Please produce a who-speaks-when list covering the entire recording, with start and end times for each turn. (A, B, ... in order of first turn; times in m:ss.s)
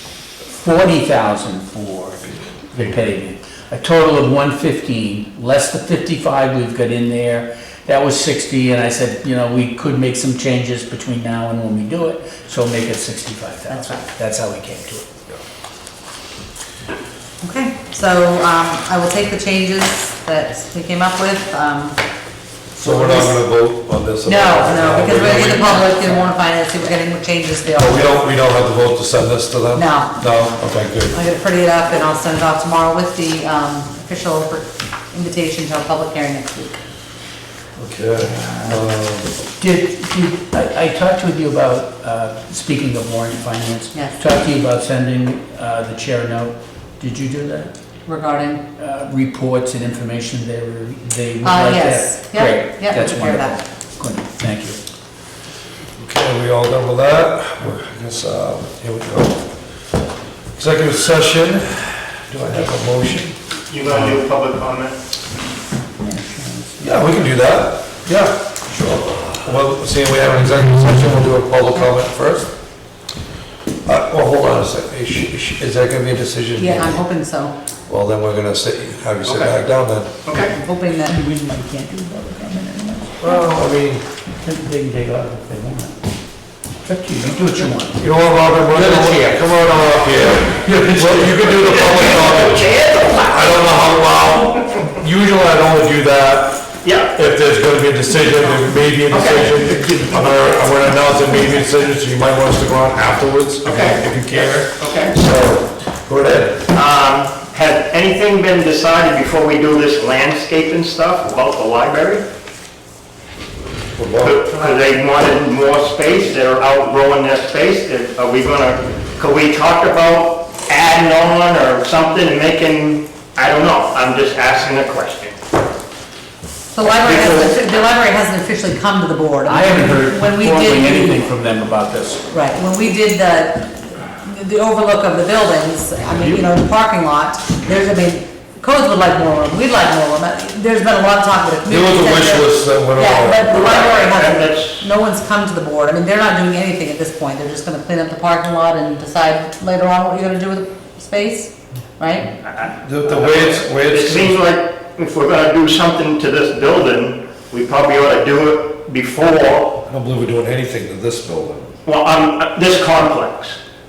0:00.5-0:15.1 A
0:13.7-0:14.0 B
0:17.4-0:22.0 B
0:22.8-0:23.4 B
0:22.8-0:26.0 C
0:24.2-0:28.3 B
0:24.8-0:26.2 A
0:27.8-0:31.2 C
0:29.7-0:30.3 B
0:31.1-0:36.8 B
0:37.8-0:39.3 C
0:38.4-0:38.8 A
0:39.6-0:47.7 A
0:48.1-0:48.6 B
0:48.8-0:54.8 A
0:51.4-0:53.5 B
0:56.0-0:59.5 C
1:00.6-1:03.4 C
1:03.7-1:05.0 D
1:06.0-1:07.1 A
1:06.8-1:08.4 C
1:09.3-1:12.5 C
1:13.9-1:17.0 C
1:16.6-1:17.5 B
1:17.9-1:20.1 C
1:19.2-1:19.5 D
1:20.3-1:20.6 D
1:20.4-1:21.2 B
1:20.9-1:23.5 A
1:23.2-1:24.0 C
1:24.4-1:26.0 A
1:26.8-1:32.2 A
1:28.0-1:36.6 C
1:31.5-1:33.7 D
1:36.8-1:37.2 D
1:37.1-1:46.7 C
1:39.1-1:40.7 D
1:43.6-1:45.2 D
1:46.7-1:52.2 D
1:54.0-1:54.7 C
1:54.2-2:05.4 D
2:06.7-2:11.2 B
2:06.8-2:07.6 D
2:09.5-2:12.2 A
2:12.3-2:32.3 B
2:21.7-2:23.7 C
2:23.5-2:24.9 D
2:32.5-2:39.8 D
2:32.7-2:34.4 C
2:39.9-2:41.7 C
2:41.8-2:43.6 D